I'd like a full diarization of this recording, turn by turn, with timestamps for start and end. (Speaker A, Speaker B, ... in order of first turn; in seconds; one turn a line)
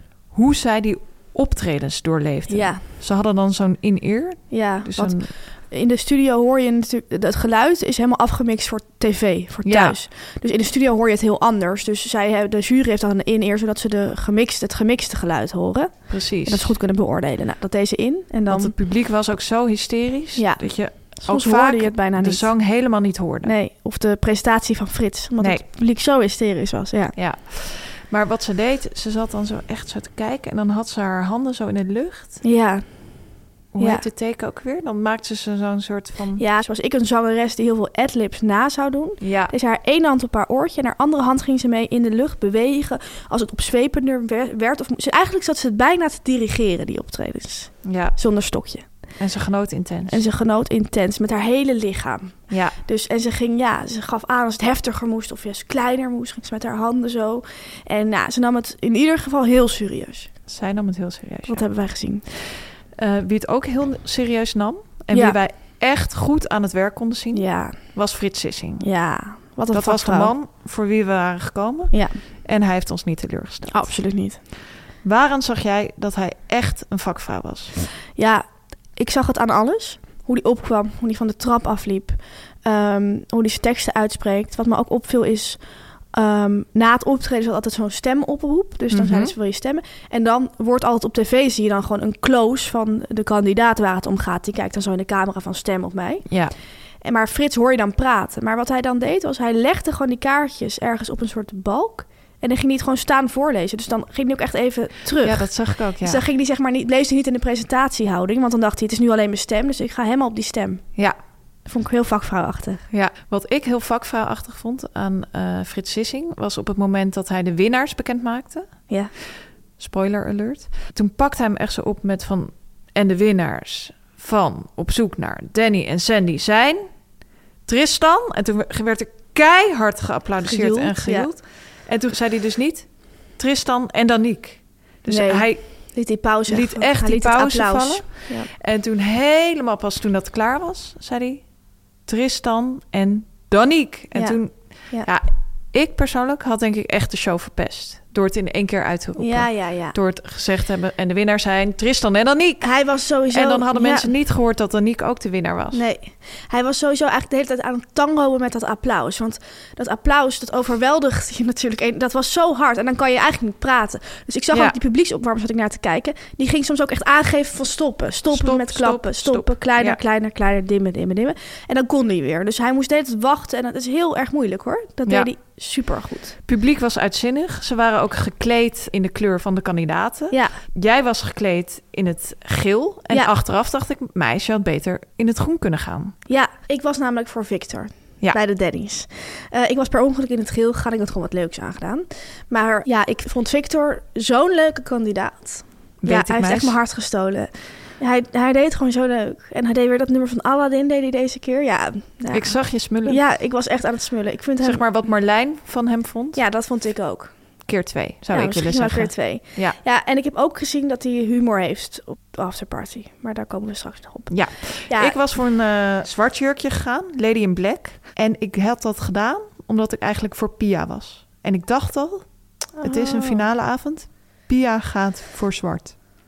Speaker A: 0.3-5.3
Speaker B: 2.5-2.8
Speaker B: 4.5-18.7
Speaker A: 9.6-10.0
Speaker A: 16.1-16.7
Speaker A: 18.5-23.5
Speaker B: 20.4-22.6
Speaker B: 23.4-27.1
Speaker A: 27.1-32.4
Speaker B: 32.4-34.0
Speaker A: 33.7-36.4
Speaker B: 36.4-48.9
Speaker A: 39.2-39.5
Speaker A: 47.8-48.2
Speaker A: 49.2-50.2
Speaker B: 50.1-60.3
Speaker A: 52.5-52.8
Speaker A: 60.5-61.6
Speaker B: 61.5-62.2
Speaker A: 62.3-68.9
Speaker B: 65.1-65.4
Speaker B: 67.3-67.9
Speaker B: 68.8-70.3
Speaker A: 69.7-74.0
Speaker B: 71.9-72.2
Speaker B: 73.7-74.4
Speaker A: 75.0-77.8
Speaker B: 78.1-96.4
Speaker A: 88.9-89.3
Speaker A: 96.3-96.5
Speaker B: 97.0-110.9
Speaker A: 105.2-106.2
Speaker B: 111.7-112.8
Speaker A: 112.9-118.7
Speaker A: 119.8-126.9
Speaker A: 127.7-135.9
Speaker B: 130.4-131.3
Speaker B: 135.1-138.5
Speaker A: 136.5-141.4
Speaker A: 142.1-152.7
Speaker B: 144.1-145.1
Speaker B: 149.2-149.9
Speaker B: 152.6-154.1
Speaker A: 153.3-155.8
Speaker B: 155.7-176.4
Speaker A: 168.2-170.0
Speaker A: 176.4-186.1
Speaker B: 180.3-180.6
Speaker B: 186.3-204.8
Speaker A: 196.0-196.8
Speaker A: 202.3-203.2
Speaker A: 204.6-206.4
Speaker B: 206.3-207.3
Speaker A: 207.7-209.8
Speaker B: 208.3-215.2
Speaker A: 214.3-222.3
Speaker B: 222.8-223.4
Speaker A: 222.8-226.0